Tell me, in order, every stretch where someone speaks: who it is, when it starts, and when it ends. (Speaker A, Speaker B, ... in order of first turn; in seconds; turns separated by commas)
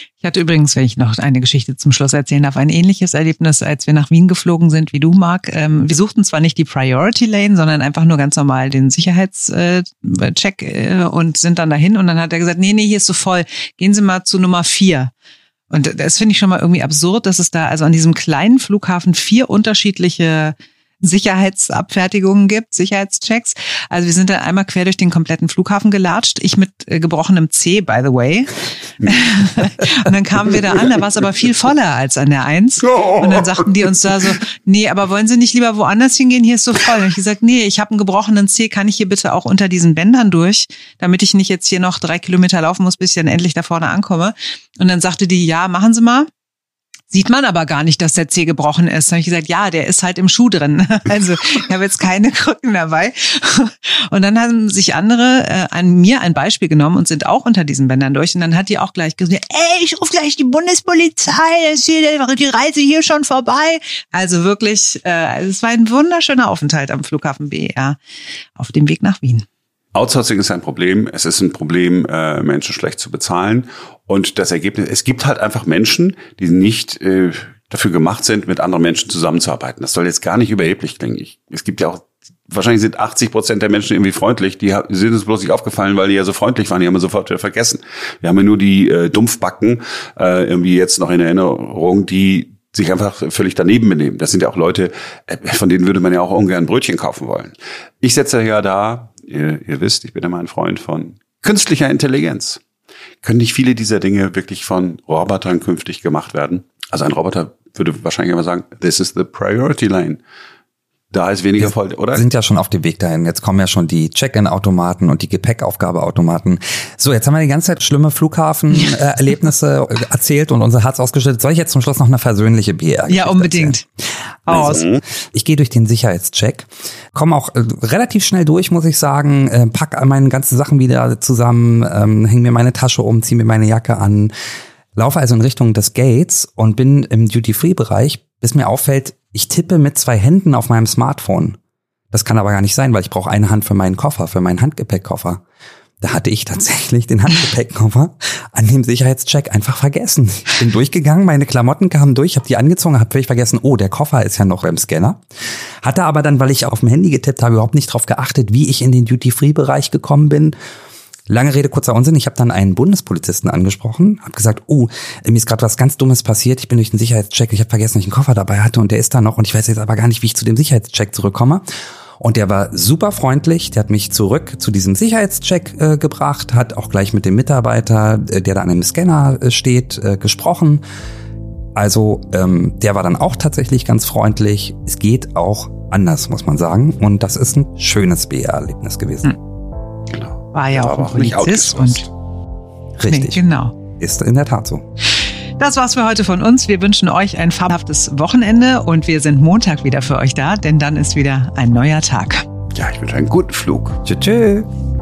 Speaker A: 0.2-15.1, Speaker A: 15.7-46.3, Speaker B: 29.0-29.3, Speaker B: 32.8-33.6, Speaker A: 47.1-68.0, Speaker A: 68.6-69.5, Speaker B: 69.9-102.6, Speaker B: 103.2-110.2, Speaker B: 111.1-112.2, Speaker C: 111.6-123.8, Speaker A: 123.1-123.8, Speaker A: 124.5-124.8, Speaker C: 124.5-134.3, Speaker B: 124.5-125.0, Speaker C: 134.9-141.6, Speaker C: 142.1-145.4, Speaker C: 146.0-155.2, Speaker C: 155.8-160.6, Speaker C: 161.3-171.6, Speaker C: 172.2-180.8, Speaker C: 181.8-189.3, Speaker B: 190.1-192.1, Speaker A: 190.5-192.1, Speaker C: 193.0-193.4, Speaker A: 193.1-193.7, Speaker C: 194.0-194.8, Speaker A: 195.6-202.4, Speaker B: 202.7-204.2, Speaker C: 204.1-204.7